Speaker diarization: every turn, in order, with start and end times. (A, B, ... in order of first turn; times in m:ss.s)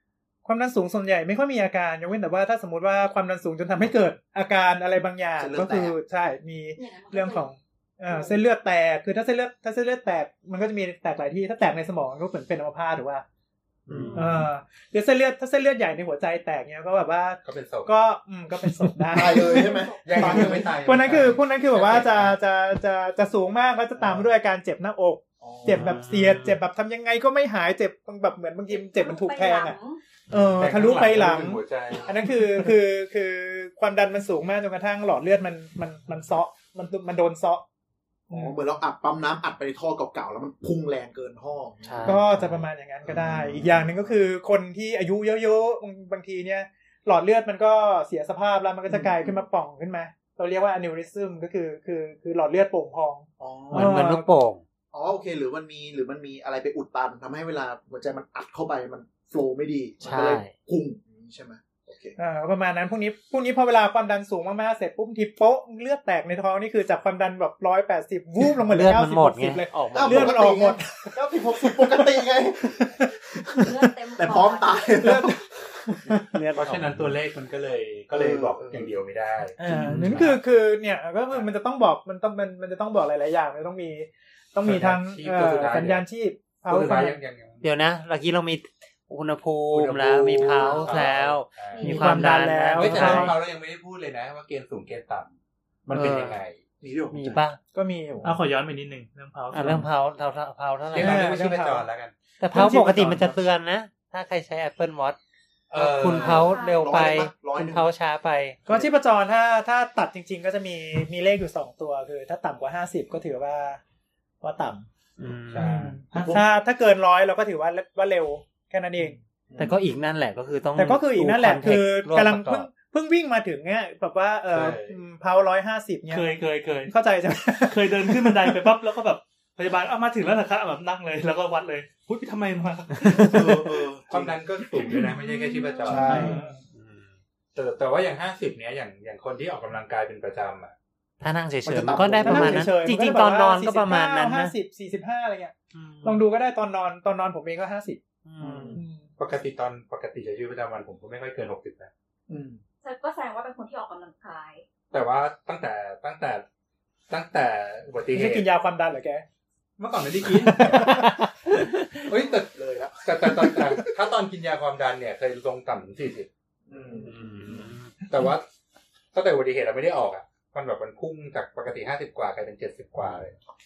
0:00.4-0:13.2 A
0:05.4-0:06.0 B
0:06.8-0:07.5 C
0:08.1-0:08.4 C
0:13.9-0:14.3 B
0:13.9-0:14.5 D
0:14.1-0:29.8 A
0:17.4-0:17.9 E
0:19.1-0:20.7 B
0:19.7-0:20.0 C
0:20.0-0:22.3 E
0:25.4-0:26.0 B
0:25.6-0:26.6 D
0:28.7-0:30.0 C
0:30.3-0:37.6 A
0:30.6-0:32.4 E
0:38.3-0:38.6 A
0:38.3-0:42.4 B
0:41.8-0:42.6 D
0:42.0-0:54.3 A
0:43.0-0:44.0 B
0:48.9-0:49.4 B
0:53.4-0:54.1 B
0:53.7-0:54.6 D
0:54.9-1:02.2 B
1:00.0-1:00.5 D
1:02.2-1:12.3 A
1:08.6-1:10.5 D
1:09.9-1:15.4 B
1:12.8-1:13.9 A
1:13.6-1:15.2 C
1:15.0-1:16.4 A
1:16.3-1:17.1 D
1:16.5-1:20.4 E
1:18.1-1:19.0 B
1:19.6-1:27.2 A
1:24.6-1:26.0 E
1:26.6-1:27.6 E
1:27.6-1:33.4 D
1:29.7-1:32.1 E
1:31.7-1:32.1 C
1:31.8-1:33.4 A
1:32.7-1:35.3 E
1:35.8-1:36.6 E
1:35.9-1:36.4 D
1:36.8-1:37.4 B
1:37.1-1:37.6 D
1:37.7-1:38.4 A
1:38.2-1:39.9 F
1:39.5-1:41.6 D
1:40.9-1:42.2 E
1:41.0-1:41.8 A
1:42.4-1:45.2 D
1:42.5-1:43.3 A
1:45.7-1:46.5 E
1:45.7-1:48.6 D
1:46.1-1:47.1 C
1:46.5-1:47.8 B
1:48.6-1:53.8 A
1:54.4-1:54.8 A
1:55.2-1:55.9 D
1:55.5-1:56.0 E
1:55.6-1:59.2 A
1:56.1-1:56.4 B
1:59.1-1:59.8 B
1:59.6-2:02.7 D
2:00.7-2:06.3 A
2:04.5-2:05.0 E
2:06.1-2:06.9 F
2:06.9-2:08.7 A
2:07.7-2:13.6 F
2:13.1-2:13.5 D
2:13.1-2:14.4 B
2:14.1-2:16.4 E
2:15.3-2:16.0 C
2:15.8-2:16.4 B
2:15.9-2:16.5 A
2:16.0-2:16.6 F
2:16.7-2:17.2 D
2:17.5-2:20.7 E
2:21.2-2:24.5 D
2:21.6-2:22.8 B
2:22.2-2:28.0 A
2:25.7-2:26.2 D
2:28.2-2:28.8 D
2:28.4-2:28.8 B
2:28.7-2:29.1 A
2:29.2-2:31.9 E
2:32.3-2:32.6 B
2:32.8-2:34.6 C
2:34.9-2:36.4 E
2:37.1-2:38.5 E
2:38.1-2:39.2 A
2:39.8-2:41.1 E
2:40.3-2:41.1 A
2:40.7-2:41.6 D
2:42.0-2:46.3 E
2:42.1-2:44.0 B
2:46.7-2:47.7 B
2:47.0-2:47.9 D
2:48.0-2:48.4 E
2:49.1-2:53.3 E